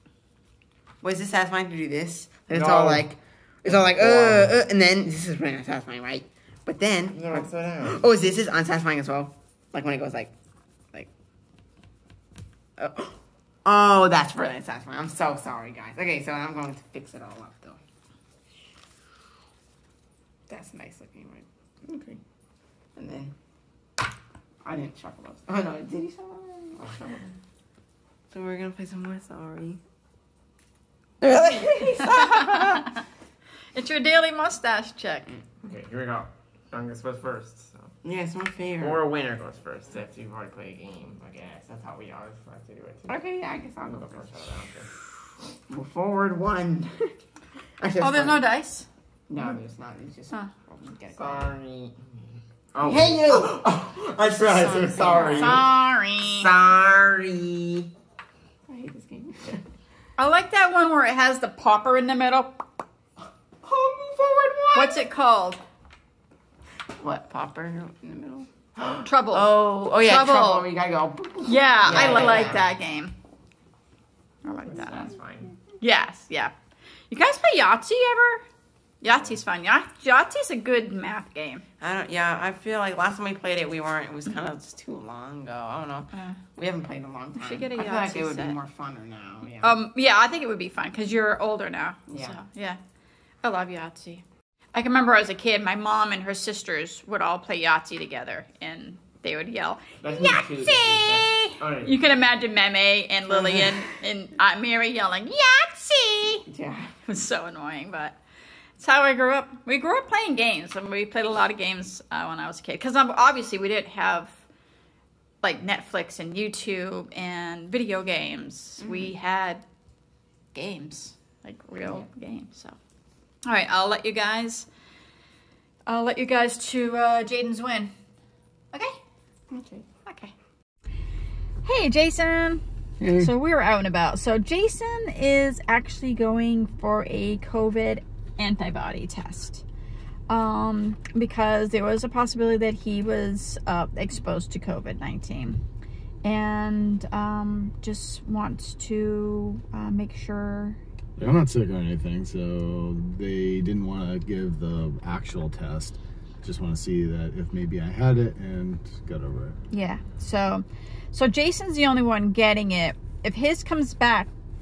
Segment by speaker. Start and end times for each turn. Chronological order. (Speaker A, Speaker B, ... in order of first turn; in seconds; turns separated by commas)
Speaker A: 1.0-10.3, Speaker B: 2.5-3.0, Speaker C: 4.0-4.5, Speaker B: 7.1-8.1, Speaker A: 12.8-17.8, Speaker A: 20.5-22.2, Speaker A: 22.9-23.3, Speaker A: 24.6-27.0, Speaker B: 26.8-27.3, Speaker A: 28.3-29.8, Speaker A: 31.2-33.0, Speaker D: 32.2-32.9, Speaker D: 33.7-35.3, Speaker B: 35.6-38.0, Speaker A: 38.0-39.0, Speaker B: 38.8-43.2, Speaker A: 43.1-47.2, Speaker B: 43.8-44.9, Speaker A: 47.8-48.4, Speaker D: 48.0-48.9, Speaker A: 49.3-51.5, Speaker B: 49.3-49.6, Speaker B: 51.1-55.7, Speaker A: 52.8-57.9, Speaker C: 52.9-53.2, Speaker D: 55.2-56.6, Speaker A: 58.7-59.6, Speaker D: 60.2-62.6, Speaker A: 63.6-65.1, Speaker D: 64.7-65.6, Speaker A: 67.0-72.6, Speaker D: 69.0-70.7, Speaker D: 71.4-73.1, Speaker B: 71.8-72.7, Speaker D: 74.4-75.1, Speaker B: 74.7-75.5, Speaker D: 75.8-76.5, Speaker D: 77.1-78.4, Speaker D: 79.0-81.6, Speaker A: 81.8-89.8, Speaker D: 86.1-86.4, Speaker D: 87.3-88.6, Speaker D: 89.6-92.8, Speaker A: 92.1-92.4, Speaker D: 93.4-106.5, Speaker B: 100.0-101.9, Speaker A: 106.5-106.9, Speaker D: 107.0-108.2, Speaker D: 108.8-114.4, Speaker D: 115.4-119.6, Speaker A: 118.8-119.1, Speaker D: 120.5-122.8, Speaker D: 123.4-124.7, Speaker D: 125.9-127.9, Speaker D: 128.7-129.0, Speaker A: 129.5-129.9, Speaker D: 130.0-130.3, Speaker D: 131.6-139.6, Speaker C: 133.0-133.3, Speaker D: 140.3-145.6, Speaker D: 146.2-150.8, Speaker C: 151.2-159.6, Speaker D: 159.7-164.3